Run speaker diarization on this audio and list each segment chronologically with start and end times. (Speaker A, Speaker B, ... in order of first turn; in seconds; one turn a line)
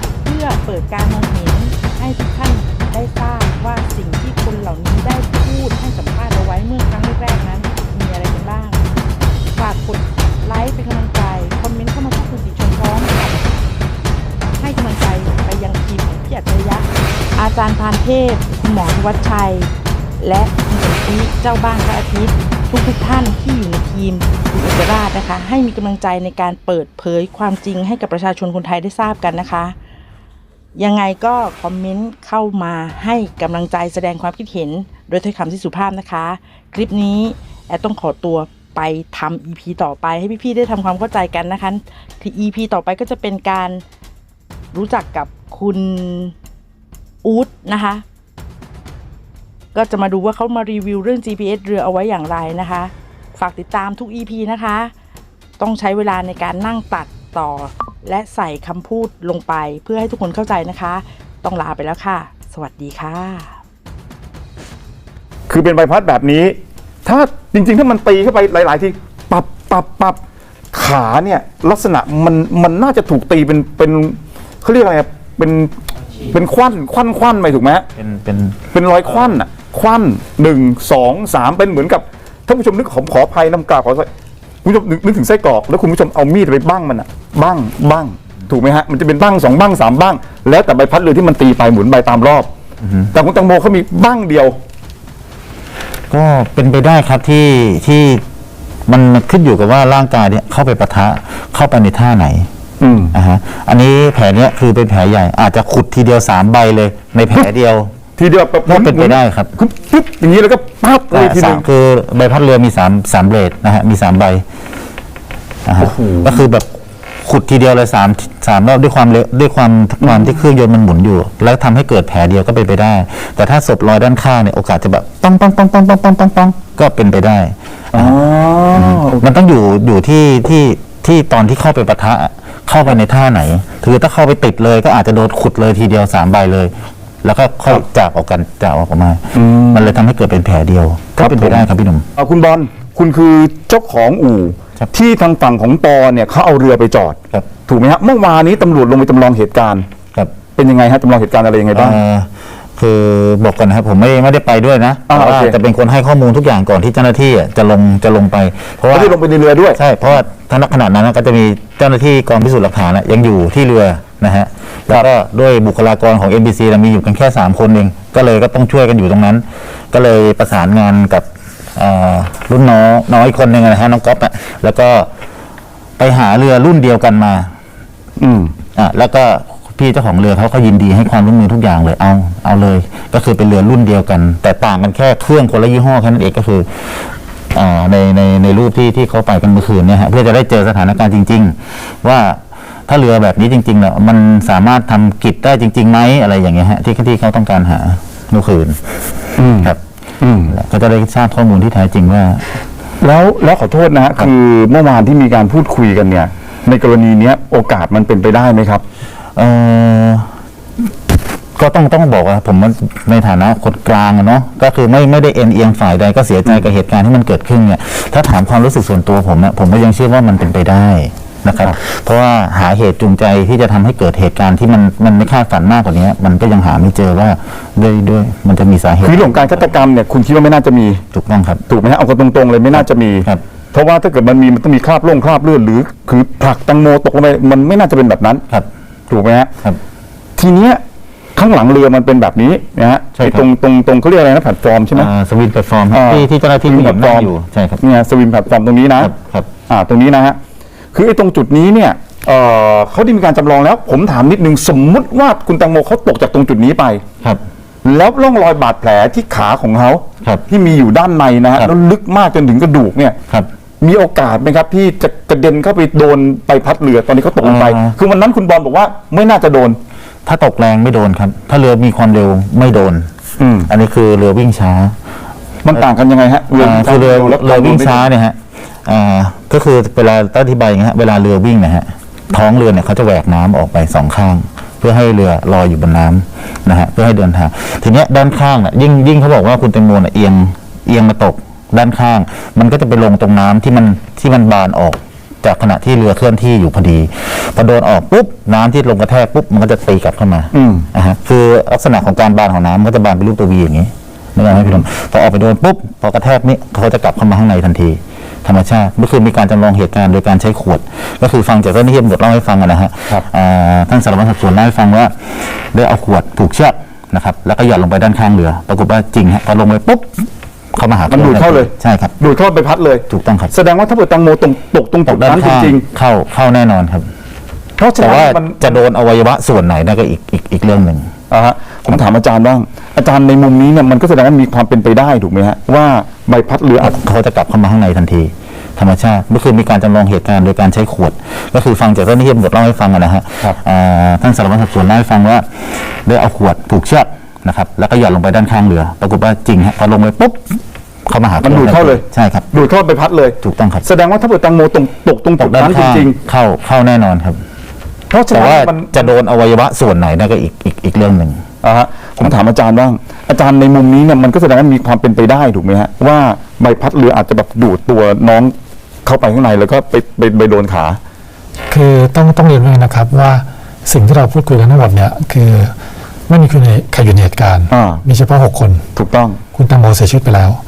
Speaker A: 0.2-8.8
Speaker A: 9.6-13.6
Speaker A: 14.6-29.8
Speaker A: 30.7-43.8
Speaker A: 44.7-46.3
Speaker A: 47.2-48.0
Speaker A: 49.7-54.9
Speaker A: 55.6-63.6
Speaker B: 65.5-70.2
Speaker B: 70.7-75.7
Speaker B: 76.3-77.8
Speaker C: 78.0-79.4
Speaker B: 78.7-84.1
Speaker B: 84.6-92.5
Speaker C: 92.8-93.1
Speaker B: 93.1-94.6
Speaker C: 96.1-98.2
Speaker C: 98.9-102.5
Speaker B: 102.8-103.1
Speaker C: 103.1-107.9
Speaker B: 108.2-111.6
Speaker C: 108.7-109.5
Speaker C: 111.1-114.4
Speaker C: 115.6-116.7
Speaker B: 115.8-116.4
Speaker C: 117.2-128.2
Speaker B: 120.0-120.3
Speaker B: 127.9-129.2
Speaker C: 128.7-142.0
Speaker B: 139.3-139.9
Speaker B: 141.2-149.8
Speaker B: 150.6-152.0
Speaker C: 151.7-159.2
Speaker B: 155.1-155.6
Speaker B: 158.9-159.8
Speaker C: 159.7-175.1
Speaker C: 176.0-177.5
Speaker B: 178.2-178.5
Speaker C: 178.8-199.0
Speaker B: 199.4-200.6
Speaker C: 199.5-199.8
Speaker C: 200.5-202.4
Speaker B: 203.0-208.8
Speaker C: 209.3-210.3
Speaker C: 211.6-229.6
Speaker B: 229.0-231.0
Speaker C: 231.1-231.6
Speaker B: 231.7-238.4
Speaker C: 232.7-233.4
Speaker B: 239.1-239.5
Speaker B: 240.4-240.8
Speaker B: 241.3-245.1
Speaker C: 243.2-243.4
Speaker C: 244.9-247.8
Speaker B: 245.9-249.1
Speaker C: 249.0-249.5
Speaker B: 249.7-250.4
Speaker B: 250.9-257.0
Speaker B: 257.8-263.1
Speaker B: 263.8-269.8
Speaker C: 267.4-267.9
Speaker C: 270.2-273.1
Speaker B: 273.4-273.7
Speaker C: 273.7-274.9
Speaker B: 275.6-278.0
Speaker C: 276.5-322.1
Speaker B: 300.5-300.9
Speaker B: 304.5-304.8
Speaker B: 321.1-325.8
Speaker C: 323.1-323.5
Speaker C: 325.1-327.1
Speaker B: 327.8-328.8
Speaker C: 328.0-331.1
Speaker B: 331.3-337.0
Speaker C: 336.8-352.4
Speaker B: 351.4-356.1
Speaker C: 353.4-353.8
Speaker C: 355.4-357.4
Speaker B: 358.1-359.0
Speaker C: 358.3-361.4
Speaker B: 361.6-368.5
Speaker B: 369.1-371.0
Speaker D: 371.7-375.7
Speaker D: 376.3-378.8
Speaker B: 377.7-378.0
Speaker B: 378.9-379.4
Speaker D: 379.5-380.6